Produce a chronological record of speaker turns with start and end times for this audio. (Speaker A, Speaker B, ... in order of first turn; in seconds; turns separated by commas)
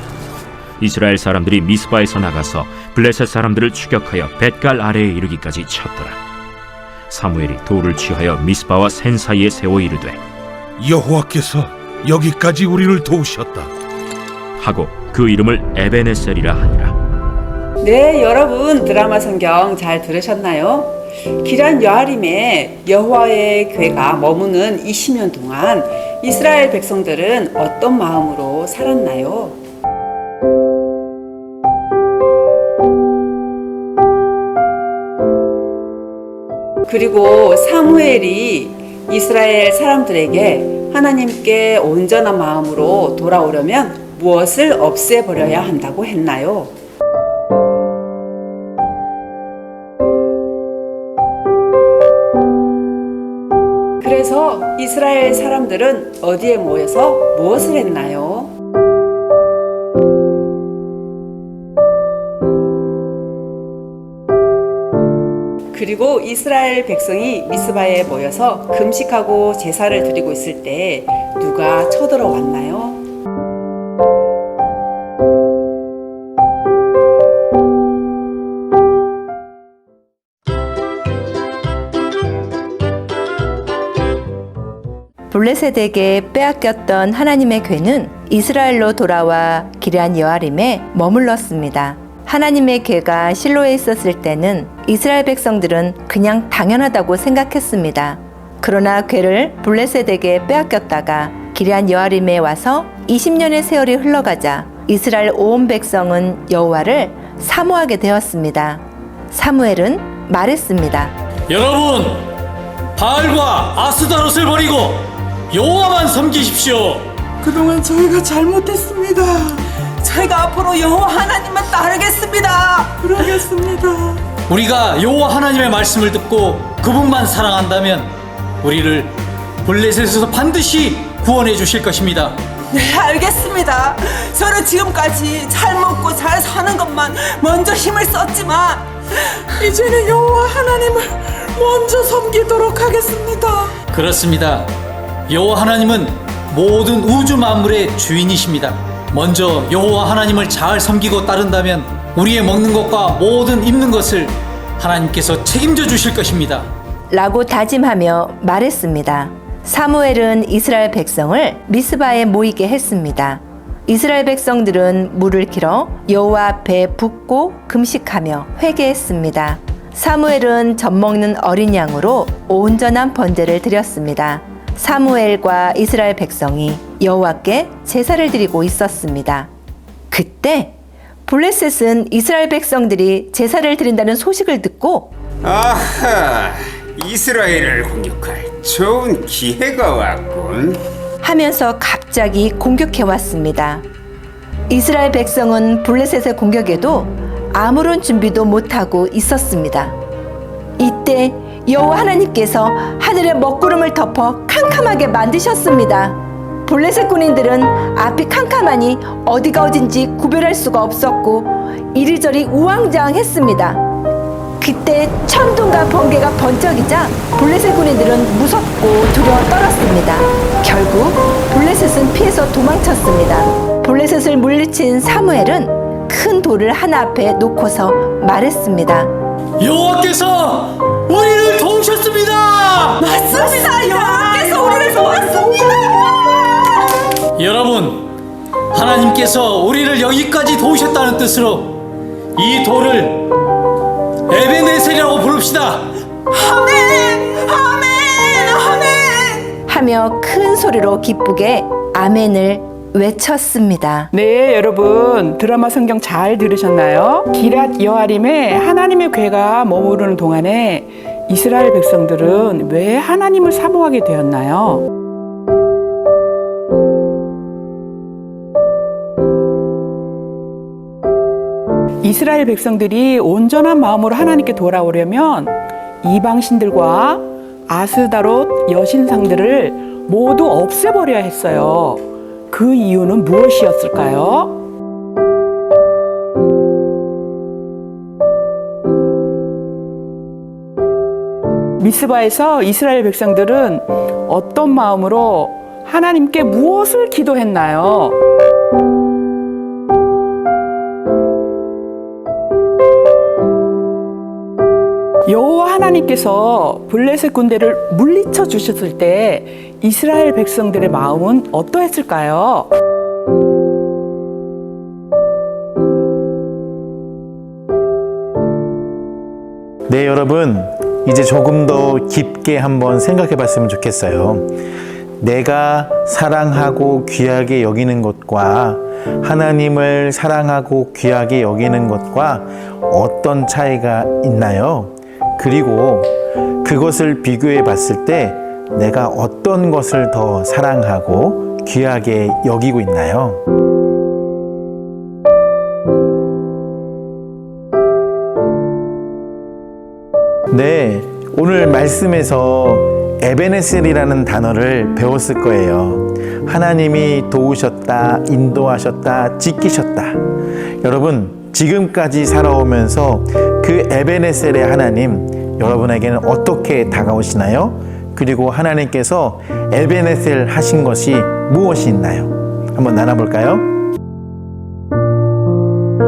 Speaker A: 0.8-6.2, Speaker A: 7.1-10.2, Speaker B: 10.8-13.7, Speaker A: 14.6-16.9, Speaker C: 17.8-29.6, Speaker C: 36.8-46.8, Speaker C: 54.0-58.5, Speaker C: 65.7-73.0, Speaker D: 85.3-111.1, Speaker E: 111.5-112.3, Speaker E: 113.0-117.1, Speaker F: 117.4-119.6, Speaker C: 120.0-120.7, Speaker F: 120.6-124.2, Speaker E: 124.5-129.1, Speaker E: 129.6-132.4, Speaker F: 132.7-138.8, Speaker F: 139.6-143.7, Speaker E: 143.9-144.7, Speaker E: 145.3-156.7, Speaker D: 157.1-179.5, Speaker D: 180.1-180.7, Speaker D: 181.3-185.1, Speaker G: 185.4-190.8, Speaker D: 191.2-193.8, Speaker D: 194.7-199.9, Speaker D: 200.8-213.8, Speaker D: 214.6-229.1, Speaker E: 229.6-233.0, Speaker F: 233.0-236.5, Speaker E: 237.4-238.1, Speaker E: 238.7-241.8, Speaker E: 242.4-243.3, Speaker E: 244.3-245.9, Speaker F: 246.6-247.1, Speaker F: 247.7-248.0, Speaker F: 248.8-249.4, Speaker D: 249.7-254.1, Speaker H: 254.1-264.8, Speaker H: 272.0-284.6, Speaker H: 291.8-298.2, Speaker H: 305.2-312.7, Speaker I: 319.9-324.5, Speaker I: 325.2-336.1, Speaker I: 336.6-343.4, Speaker I: 350.5-360.2, Speaker I: 360.8-373.7